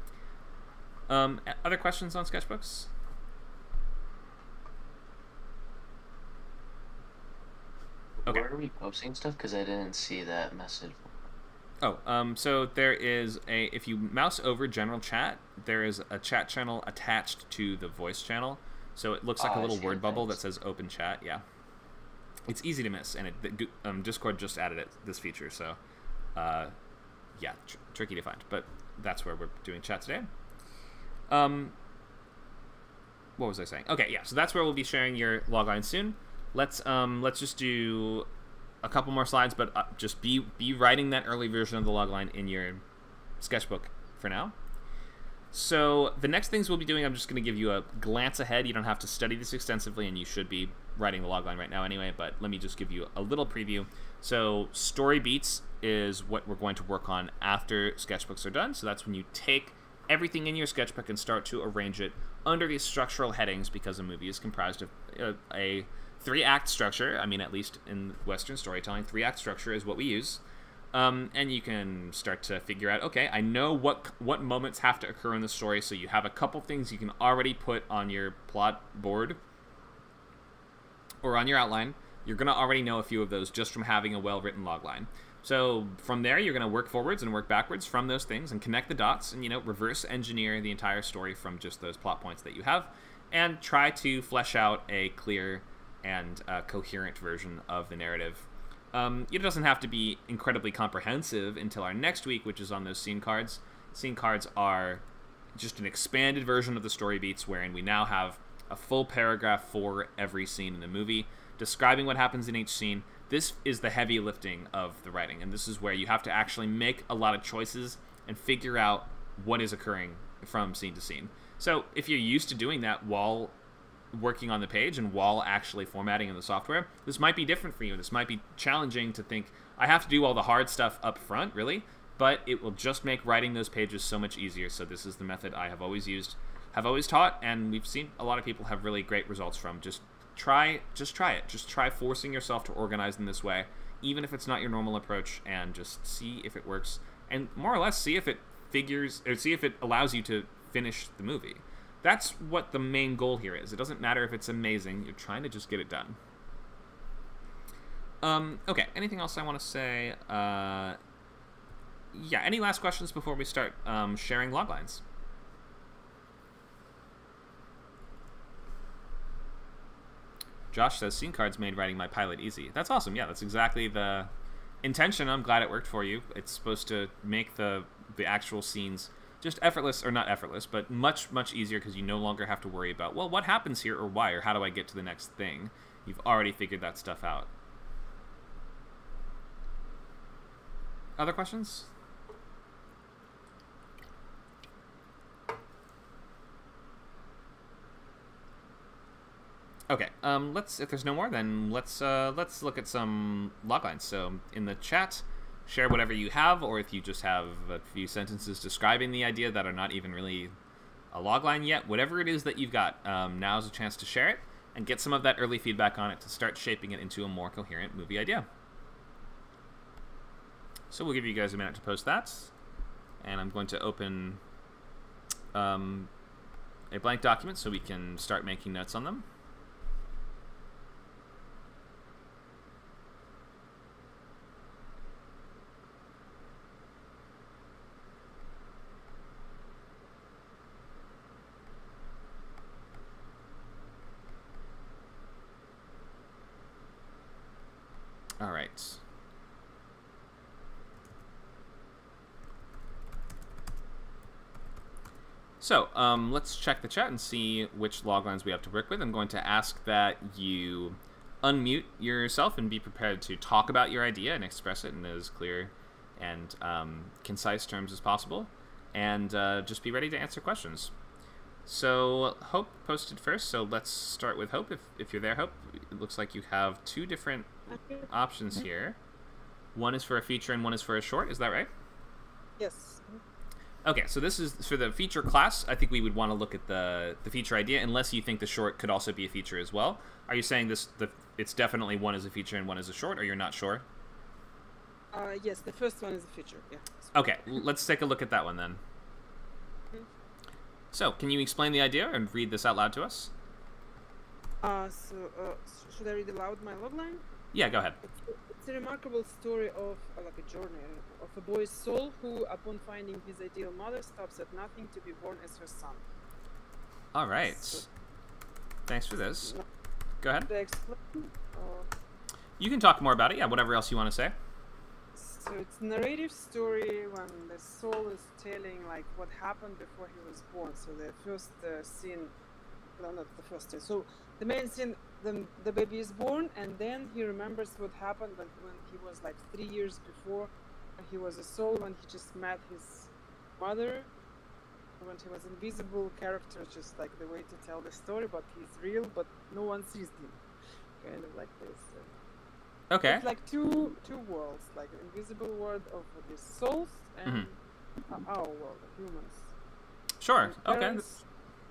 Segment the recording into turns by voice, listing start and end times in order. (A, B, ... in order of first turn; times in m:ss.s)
0:01.1-0:02.9 A
0:08.2-0:11.1 B
0:11.8-0:21.4 A
0:19.4-0:20.4 B
0:22.5-0:25.8 A
0:26.3-0:26.7 A
0:27.4-0:30.3 A
0:31.3-0:31.7 A
0:33.4-0:38.3 A
0:38.8-0:42.8 A
0:43.4-0:44.5 A
0:45.5-1:10.4 A
1:10.9-1:19.4 A
1:21.2-1:45.0 A
1:45.6-2:03.5 A
2:04.1-2:36.2 A
2:38.2-2:41.0 A
2:42.1-2:45.0 A
2:50.7-2:54.3 A
2:54.8-3:07.5 A
3:11.2-3:11.9 A
3:19.9-3:30.5 A
3:31.1-3:38.5 A
3:40.9-3:42.5 A
3:43.2-3:44.4 A
3:45.5-3:46.1 A
3:46.9-3:49.2 A
4:08.4-4:09.0 A
4:15.6-4:30.9 A
4:31.7-4:39.0 A
4:37.7-4:38.0 C
4:39.7-4:41.7 A
4:42.6-4:43.2 C
4:43.8-4:53.8 A
4:55.1-4:57.1 C
4:57.1-4:58.8 A
5:00.9-5:03.3 A
5:04.6-5:07.2 C
5:07.5-5:08.0 A
5:08.2-5:16.0 C
5:17.1-5:17.9 A
5:17.4-5:17.9 C
5:18.9-5:19.5 A
5:20.2-5:20.5 A
5:20.4-5:21.9 C
5:22.6-5:24.4 A
5:25.1-5:32.3 C
5:33.0-5:44.1 C
5:45.0-5:50.4 C
5:51.0-5:52.1 C
5:52.9-5:53.2 A
5:53.0-5:57.6 C
5:58.1-5:59.5 C
6:00.2-6:01.0 A
6:00.4-6:01.2 C